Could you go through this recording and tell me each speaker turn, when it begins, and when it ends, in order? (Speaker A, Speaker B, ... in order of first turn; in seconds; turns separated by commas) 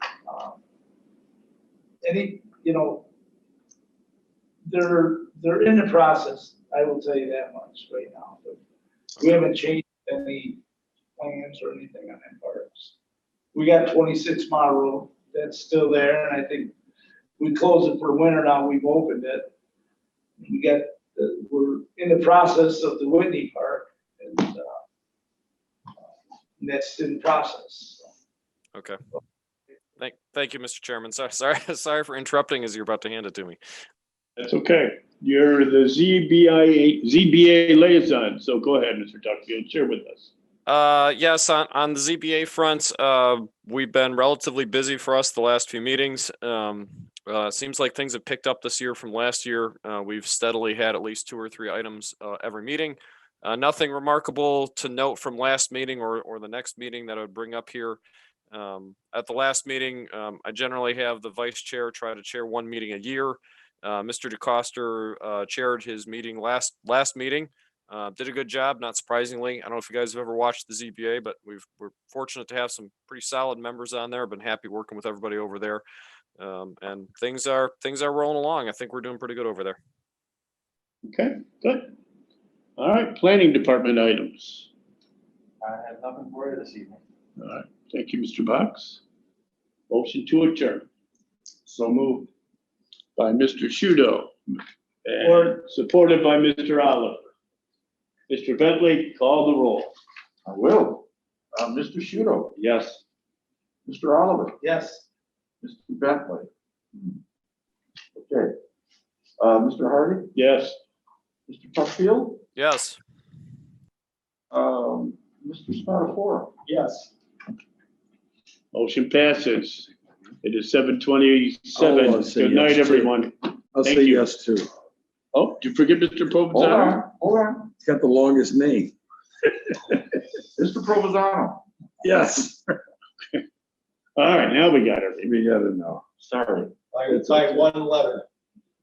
Speaker A: 0.2-0.6, Speaker A: 2.0-3.0, Speaker A: 4.7-8.6, Speaker A: 9.2-10.6, Speaker A: 11.2-12.9, Speaker A: 13.5-16.7, Speaker A: 17.4-19.5, Speaker A: 20.4-24.8, Speaker A: 26.6-28.1, Speaker B: 30.0-33.6, Speaker C: 34.4-40.3, Speaker B: 40.6-58.0, Speaker B: 58.5-75.8, Speaker B: 76.4-79.8, Speaker C: 81.1-81.9, Speaker C: 82.8-84.7, Speaker D: 85.6-87.0, Speaker C: 87.4-89.0, Speaker C: 89.9-90.8, Speaker E: 91.7-92.3, Speaker C: 93.2-97.3, Speaker A: 95.2-95.6, Speaker C: 98.3-99.9, Speaker E: 100.4-102.5, Speaker C: 102.6-103.0, Speaker E: 103.8-104.5, Speaker A: 104.6-105.0, Speaker E: 105.6-107.1, Speaker E: 108.1-108.5, Speaker E: 109.4-110.3, Speaker C: 110.3-110.8, Speaker E: 111.5-112.4, Speaker B: 112.5-113.0, Speaker E: 114.5-116.5, Speaker C: 118.7-119.9, Speaker C: 120.4-124.3, Speaker F: 121.7-123.1, Speaker F: 123.7-124.7, Speaker C: 125.3-127.0, Speaker E: 126.5-127.7, Speaker F: 127.8-128.9, Speaker E: 130.5-131.6, Speaker F: 132.0-132.8, Speaker C: 134.2-135.3, Speaker F: 135.2-136.0, Speaker E: 136.2-136.8, Speaker D: 136.9-138.2, Speaker C: 137.3-137.6